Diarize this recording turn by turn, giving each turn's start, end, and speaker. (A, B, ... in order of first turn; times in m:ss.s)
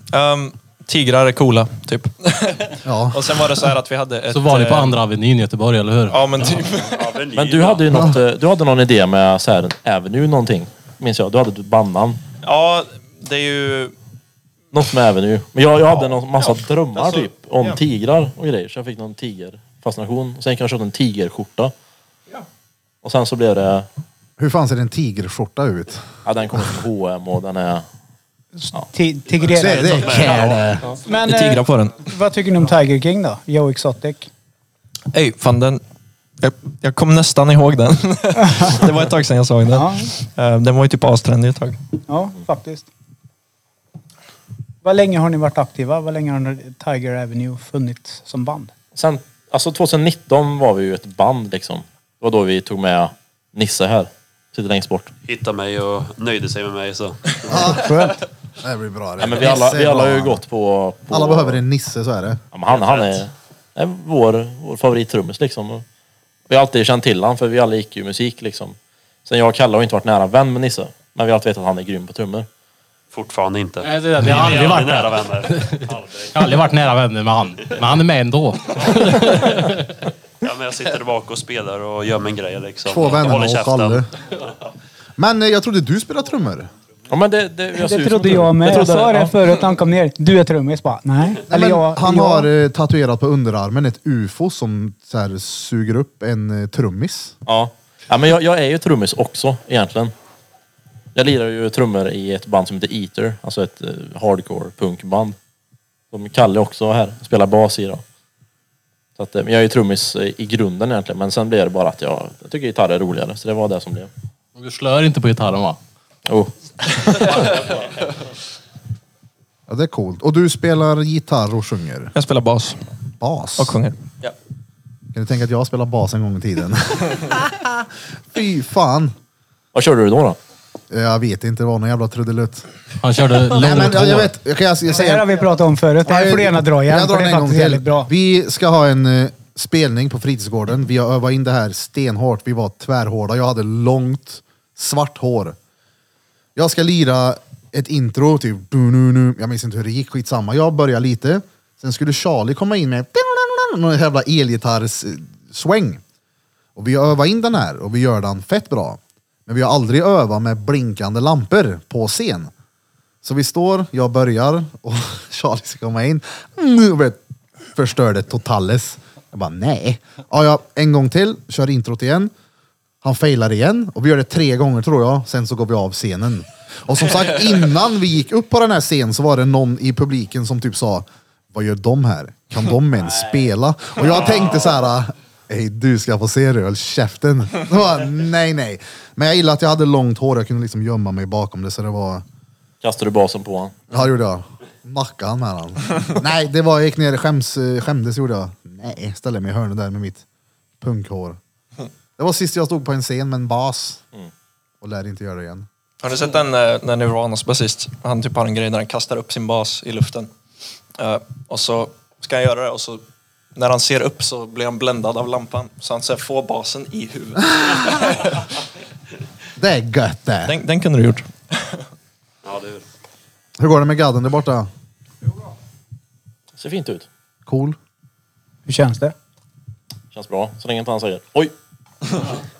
0:00.1-0:05.0 A
0:02.8-0:03.4 B
0:04.3-0:06.7 C
0:06.1-0:07.2 A
0:06.8-0:08.1 D
0:07.3-0:12.2 E
0:07.9-0:08.2 B
0:12.4-0:13.9 A
0:14.7-0:21.7 E
0:15.9-0:17.8 A
0:23.0-0:23.9 E
0:24.4-0:26.8 B
0:26.2-0:27.8 E
0:28.6-0:34.3 F
0:29.3-0:30.9 D
0:29.5-0:30.8 B
0:31.0-0:32.0 A
0:35.1-0:35.8 A
0:36.4-0:41.8 A
0:38.4-0:38.8 F
0:39.7-0:40.1 F
0:42.1-0:42.9 F
0:44.8-0:48.7 F
0:48.9-0:55.1 E
0:55.3-0:57.8 D
0:57.5-1:00.4 B
0:59.2-1:01.6 E
1:01.1-1:02.4 B
1:02.5-1:05.8 E
1:02.7-1:03.2 D
1:06.5-1:12.5 E
1:13.1-1:16.6 D
1:13.8-1:19.9 C
1:20.4-1:24.5 D
1:22.8-1:24.0 B
1:25.2-1:26.7 B
1:27.1-1:29.3 E
1:27.7-1:32.5 F
1:31.5-1:37.3 B
1:37.4-1:40.1 E
1:41.1-1:45.4 E
1:46.1-1:48.0 E
1:49.2-1:54.1 E
1:54.6-1:55.8 C
1:56.2-1:57.8 E
1:59.7-2:02.1 B
2:02.1-2:02.8 A
2:03.2-2:03.8 B
2:03.6-2:04.3 A
2:05.1-2:09.1 B
2:09.7-2:10.4 E
2:10.9-2:12.7 B
2:13.0-2:14.3 C
2:13.4-2:15.5 B
2:14.9-2:18.1 F
2:16.0-2:25.6 B
2:26.6-2:36.0 B
2:36.8-2:42.5 B
2:43.2-2:47.2 B
2:47.7-2:52.3 B
2:53.0-3:12.2 B
3:12.8-3:13.8 E
3:13.9-3:20.2 B
3:20.8-3:21.4 B
3:22.2-3:24.0 B
3:24.8-3:25.7 B
3:26.0-3:30.3 A
3:31.0-3:33.0 A
3:33.5-3:38.5 A
3:37.5-3:37.8 B
3:39.6-3:40.6 B
3:40.4-3:41.8 A
3:42.4-3:42.8 D
3:43.6-3:44.7 B
3:46.6-3:47.1 E
3:47.4-3:47.8 B
3:48.6-3:49.1 F
3:50.1-3:51.5 E